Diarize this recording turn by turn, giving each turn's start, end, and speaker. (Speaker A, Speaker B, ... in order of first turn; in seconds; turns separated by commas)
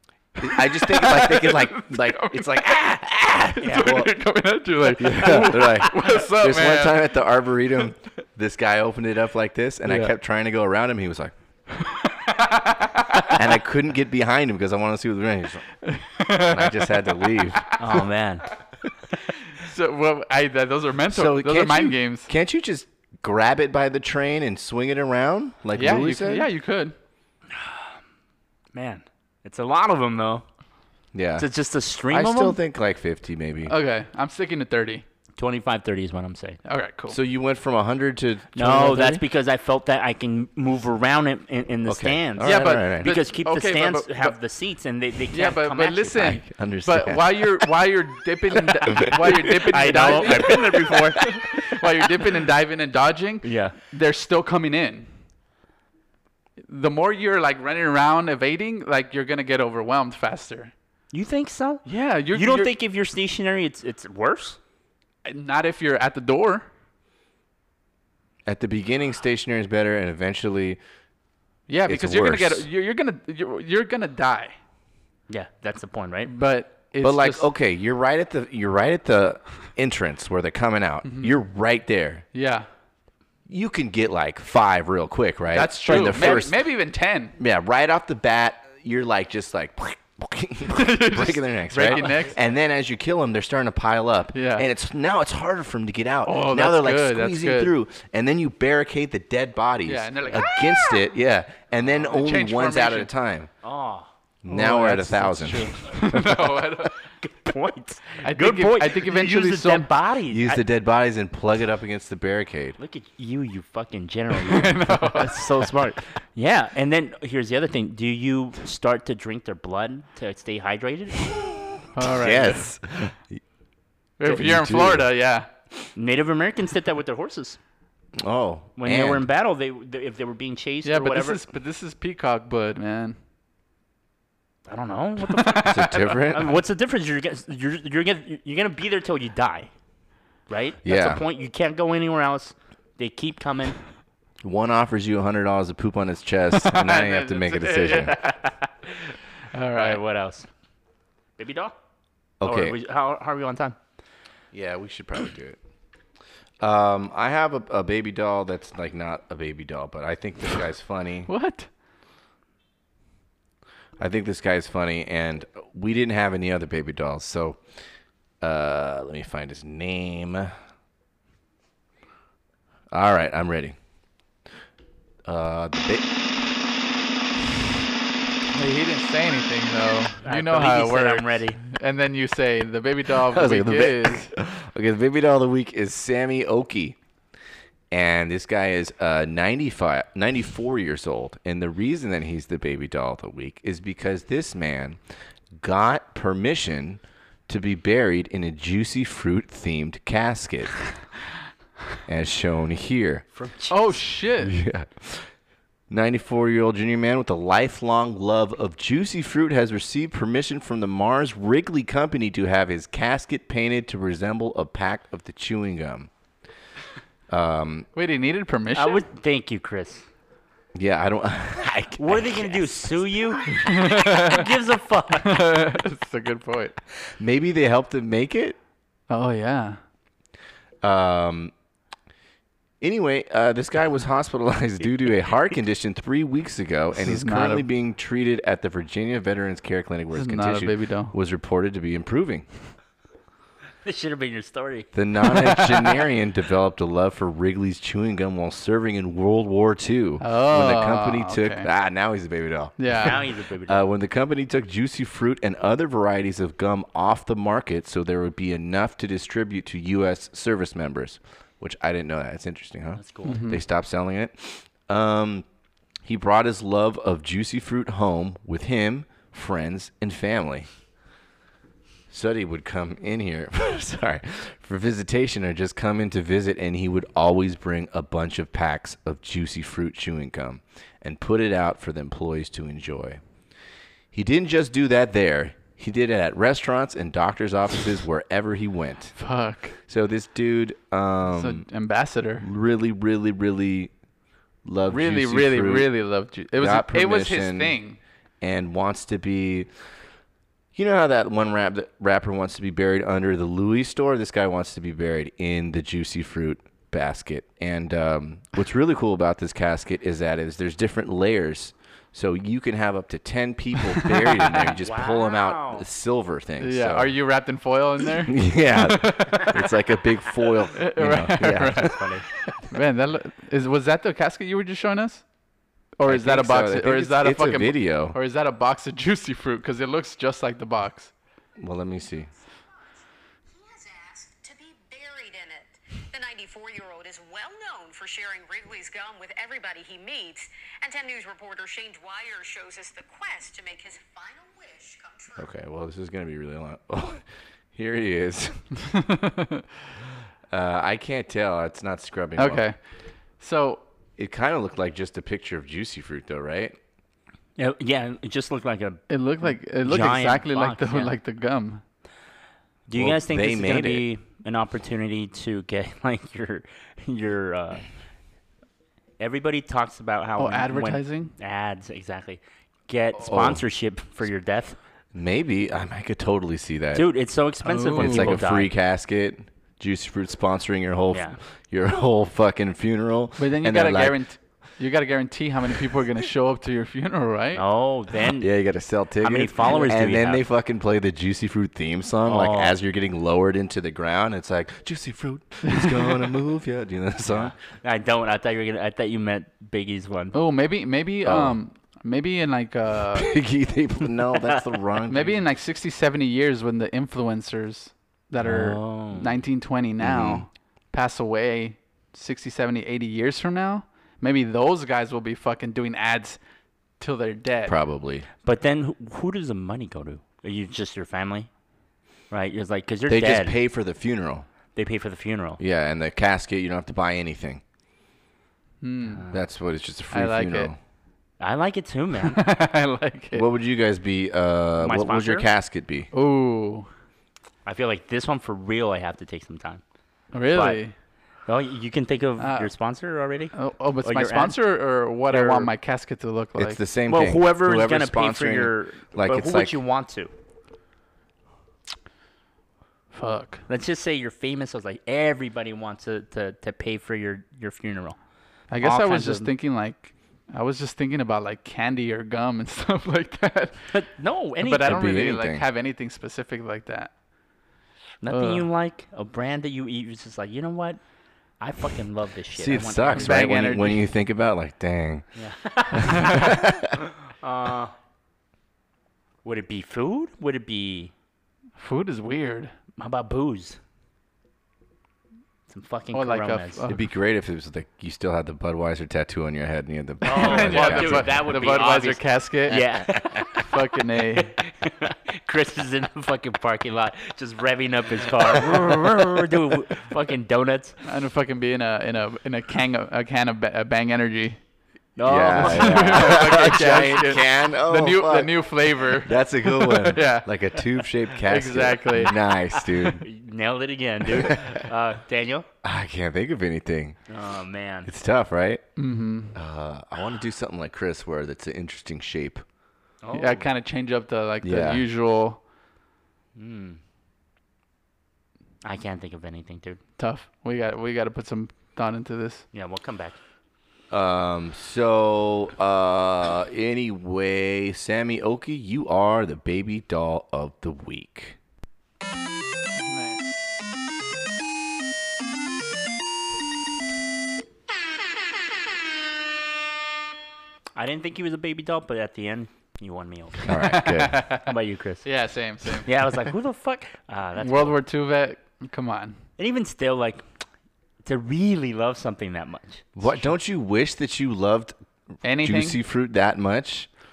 Speaker A: 0.4-7.1, Speaker B: 0.4-4.1, Speaker B: 5.0-11.3, Speaker C: 5.3-5.7, Speaker A: 9.8-10.1, Speaker A: 11.7-13.4, Speaker B: 13.3-15.7, Speaker A: 15.8-17.7, Speaker B: 16.4-18.0, Speaker C: 17.8-18.5, Speaker A: 19.5-22.3, Speaker B: 21.1-26.5, Speaker A: 25.7-26.9, Speaker C: 27.6-27.9, Speaker C: 28.7-30.4, Speaker B: 31.1-31.5, Speaker C: 31.4-32.5, Speaker A: 32.1-32.6, Speaker B: 32.1-33.7, Speaker A: 33.6-35.0, Speaker C: 35.4-36.6, Speaker A: 36.6-37.2, Speaker B: 37.1-39.2, Speaker C: 38.5-46.4, Speaker B: 41.9-43.1, Speaker A: 42.4-44.4, Speaker A: 45.3-55.1, Speaker B: 46.2-47.6, Speaker B: 48.9-49.3, Speaker C: 49.0-51.2, Speaker B: 50.3-50.6, Speaker C: 53.4-53.7, Speaker A: 56.7-60.7, Speaker C: 61.1-64.6, Speaker A: 61.9-62.7, Speaker A: 65.2-66.7, Speaker B: 68.4-70.8, Speaker A: 71.7-74.5, Speaker B: 71.9-72.7, Speaker C: 75.3-76.3, Speaker A: 76.3-77.5, Speaker B: 77.0-82.2, Speaker A: 81.0-81.3, Speaker A: 82.3-82.7, Speaker B: 83.5-86.6, Speaker A: 85.5-87.3, Speaker C: 85.9-86.3, Speaker B: 87.4-103.5, Speaker A: 90.7-92.3, Speaker A: 94.3-94.7, Speaker A: 96.2-97.7, Speaker A: 99.8-100.8, Speaker A: 102.0-103.1, Speaker C: 103.6-104.1, Speaker B: 104.4-106.4, Speaker A: 104.5-107.0, Speaker C: 106.1-110.6, Speaker A: 108.2-109.9, Speaker B: 110.3-112.8, Speaker C: 112.8-121.3, Speaker A: 114.5-115.4, Speaker A: 121.9-122.6, Speaker B: 122.0-123.4, Speaker A: 124.2-125.5, Speaker B: 124.2-125.1, Speaker C: 126.0-127.6, Speaker B: 128.2-129.2, Speaker C: 128.8-131.4, Speaker A: 130.8-133.2, Speaker C: 134.7-139.7, Speaker A: 135.2-136.2, Speaker B: 135.6-136.5, Speaker C: 140.5-143.8, Speaker B: 140.8-141.2, Speaker B: 144.4-148.1, Speaker A: 146.6-148.4, Speaker A: 149.5-150.0, Speaker C: 149.7-150.5, Speaker C: 151.4-151.7, Speaker B: 152.4-152.8, Speaker C: 152.4-153.8, Speaker B: 154.5-155.6, Speaker B: 156.6-161.3, Speaker A: 161.3-161.7, Speaker B: 164.0-167.6, Speaker B: 168.4-170.5, Speaker B: 172.9-173.8, Speaker B: 175.2-176.1, Speaker A: 178.5-184.3, Speaker C: 180.2-181.6, Speaker B: 183.1-186.9, Speaker B: 187.9-195.0, Speaker B: 195.5-200.8, Speaker B: 202.1-203.2, Speaker C: 203.3-203.8, Speaker A: 203.7-204.6, Speaker B: 204.4-205.3, Speaker B: 205.9-216.1, Speaker B: 217.3-217.9, Speaker A: 217.9-219.0, Speaker C: 218.7-220.0, Speaker B: 220.8-223.0, Speaker C: 222.0-225.5, Speaker A: 223.5-224.4, Speaker A: 225.2-226.8, Speaker B: 227.2-228.6, Speaker A: 229.1-229.8, Speaker B: 230.8-231.5, Speaker B: 232.8-242.5, Speaker A: 236.9-237.7, Speaker A: 240.1-241.1, Speaker C: 243.8-244.9, Speaker B: 244.9-265.4, Speaker A: 245.2-246.0, Speaker A: 250.2-251.7, Speaker A: 252.8-253.2, Speaker C: 252.9-253.8, Speaker C: 263.0-263.4, Speaker A: 263.2-263.6, Speaker B: 266.0-270.7, Speaker B: 272.1-283.2, Speaker B: 284.1-289.2, Speaker A: 289.1-289.8, Speaker B: 289.8-291.6, Speaker A: 291.3-292.4, Speaker B: 292.4-293.9, Speaker B: 294.6-295.9, Speaker A: 294.9-298.0, Speaker B: 296.6-297.8, Speaker B: 298.4-299.7, Speaker B: 300.7-317.1, Speaker A: 313.9-314.7, Speaker C: 314.8-315.9, Speaker A: 316.6-319.6, Speaker B: 318.2-322.1, Speaker A: 320.8-322.0, Speaker C: 321.7-322.2, Speaker A: 322.7-325.2, Speaker A: 326.0-331.1, Speaker B: 326.1-328.2, Speaker B: 331.6-332.3, Speaker D: 333.5-345.5, Speaker B: 345.4-348.7, Speaker A: 348.8-349.6, Speaker B: 350.5-352.6, Speaker A: 352.4-352.8, Speaker A: 353.4-353.8, Speaker B: 354.2-356.8, Speaker C: 357.6-361.1, Speaker A: 359.1-361.8, Speaker C: 362.9-367.8, Speaker B: 362.9-364.0, Speaker C: 369.2-374.8, Speaker A: 370.4-371.3, Speaker B: 373.2-373.6, Speaker B: 375.1-377.1, Speaker C: 376.9-378.7, Speaker A: 377.6-378.4, Speaker B: 377.9-384.2, Speaker C: 381.1-381.4, Speaker A: 383.4-387.6, Speaker C: 387.5-388.5, Speaker B: 388.4-397.5, Speaker C: 389.2-390.4, Speaker C: 392.2-392.7, Speaker A: 395.6-396.3, Speaker C: 397.2-400.3, Speaker A: 400.3-403.3, Speaker B: 401.2-401.6, Speaker B: 403.1-405.4, Speaker A: 405.1-416.4, Speaker C: 408.4-409.4, Speaker B: 410.0-410.4, Speaker A: 417.0-417.7, Speaker B: 417.6-418.3, Speaker C: 418.4-421.5, Speaker C: 422.3-423.6, Speaker B: 423.1-424.4, Speaker C: 424.8-425.6, Speaker B: 425.6-427.6, Speaker A: 428.8-429.2, Speaker C: 429.2-429.4, Speaker B: 429.3-430.8, Speaker A: 430.1-430.7, Speaker C: 431.4-432.4, Speaker A: 432.2-433.4, Speaker B: 433.3-436.1, Speaker C: 434.8-435.5, Speaker A: 436.1-436.9, Speaker C: 437.6-439.8, Speaker A: 440.3-440.9, Speaker C: 440.5-440.8, Speaker C: 441.5-444.6, Speaker A: 442.4-442.7, Speaker A: 443.5-446.8, Speaker C: 445.3-445.7, Speaker B: 446.6-449.8, Speaker C: 447.1-450.3, Speaker A: 453.1-453.6, Speaker C: 453.7-458.2, Speaker A: 458.7-463.9, Speaker C: 458.8-459.5, Speaker C: 463.9-464.9, Speaker A: 464.6-467.1, Speaker B: 464.8-465.6, Speaker C: 468.2-471.0, Speaker A: 468.3-468.6, Speaker C: 471.6-473.5, Speaker B: 472.6-475.3, Speaker A: 473.1-474.0, Speaker C: 475.4-476.6, Speaker B: 475.9-476.9, Speaker C: 477.3-477.9, Speaker C: 479.4-481.1, Speaker A: 481.8-482.7, Speaker C: 483.0-483.8, Speaker C: 485.7-486.8, Speaker A: 486.1-487.0, Speaker B: 486.9-491.5, Speaker C: 490.2-501.0, Speaker A: 490.3-492.8, Speaker B: 492.7-493.5, Speaker A: 493.5-494.5, Speaker A: 501.1-504.6, Speaker C: 505.1-506.8, Speaker B: 505.2-513.2, Speaker A: 505.6-510.5, Speaker A: 511.4-512.3, Speaker C: 513.1-515.7, Speaker B: 514.3-514.8, Speaker B: 515.8-517.2, Speaker C: 517.3-518.1, Speaker B: 518.0-518.8, Speaker A: 519.0-519.5, Speaker B: 519.5-522.6, Speaker C: 523.2-523.7, Speaker A: 523.3-525.6, Speaker B: 524.6-525.0, Speaker C: 526.5-527.0, Speaker C: 528.8-530.0, Speaker A: 530.2-532.6, Speaker C: 532.7-533.4, Speaker B: 534.1-541.6, Speaker A: 543.0-543.5, Speaker C: 551.0-553.7, Speaker B: 553.6-554.4, Speaker A: 553.7-554.7, Speaker C: 554.6-555.3, Speaker A: 555.2-556.5, Speaker C: 556.0-558.0, Speaker A: 557.6-559.4, Speaker C: 559.6-560.4, Speaker C: 561.2-563.3, Speaker B: 563.1-565.0, Speaker A: 565.4-566.0, Speaker B: 565.6-567.1